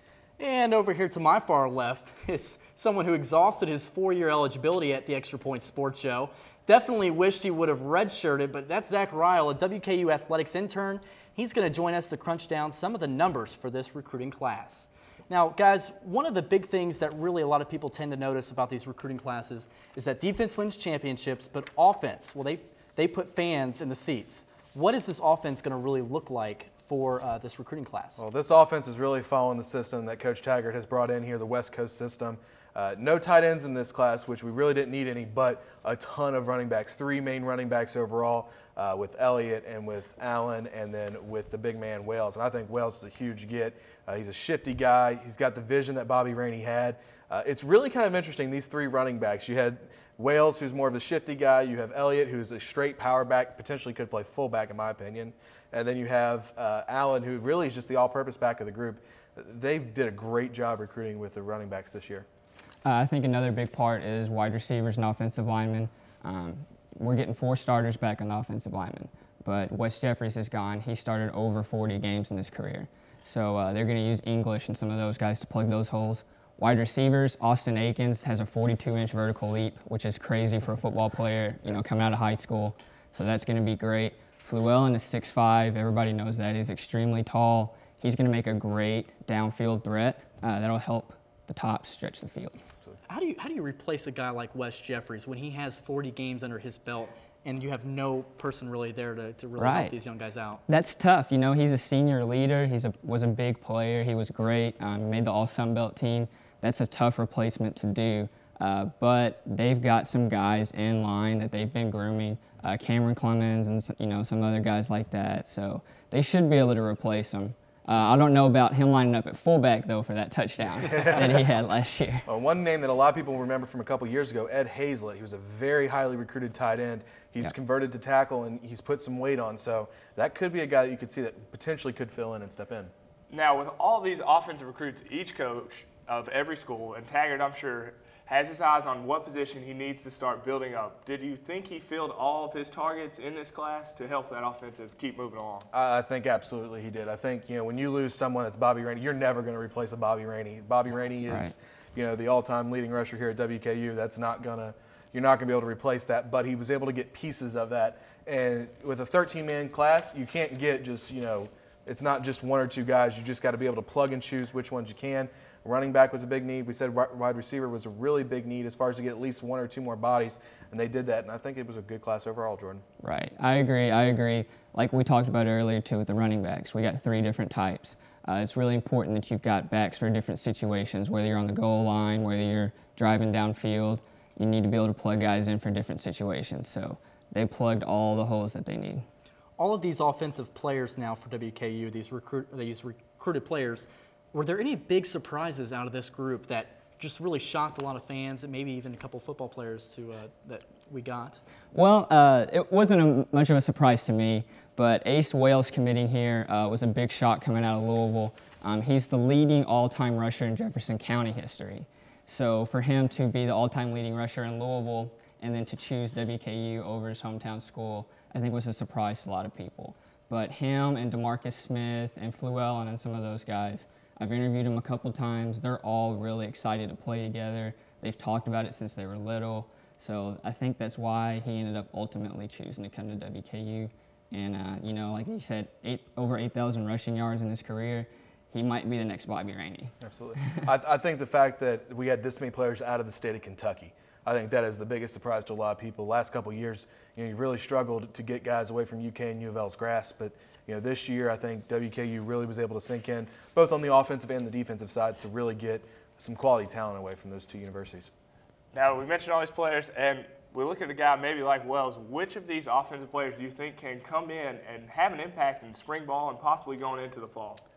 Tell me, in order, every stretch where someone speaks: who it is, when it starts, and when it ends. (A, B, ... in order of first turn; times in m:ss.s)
0:00.4-0:28.2 A
0:28.2-1:02.2 B
1:02.8-1:32.6 C
1:33.1-1:40.6 A
1:39.6-1:39.9 C
1:40.7-2:02.3 C
2:00.8-2:01.5 B
2:02.3-2:12.9 B
2:13.3-2:25.7 D
2:25.7-2:52.8 B
2:31.3-2:31.5 C
2:53.0-3:09.0 C
3:09.6-3:21.4 A
3:21.7-3:59.9 C
4:00.0-4:18.1 B
4:18.7-4:27.6 D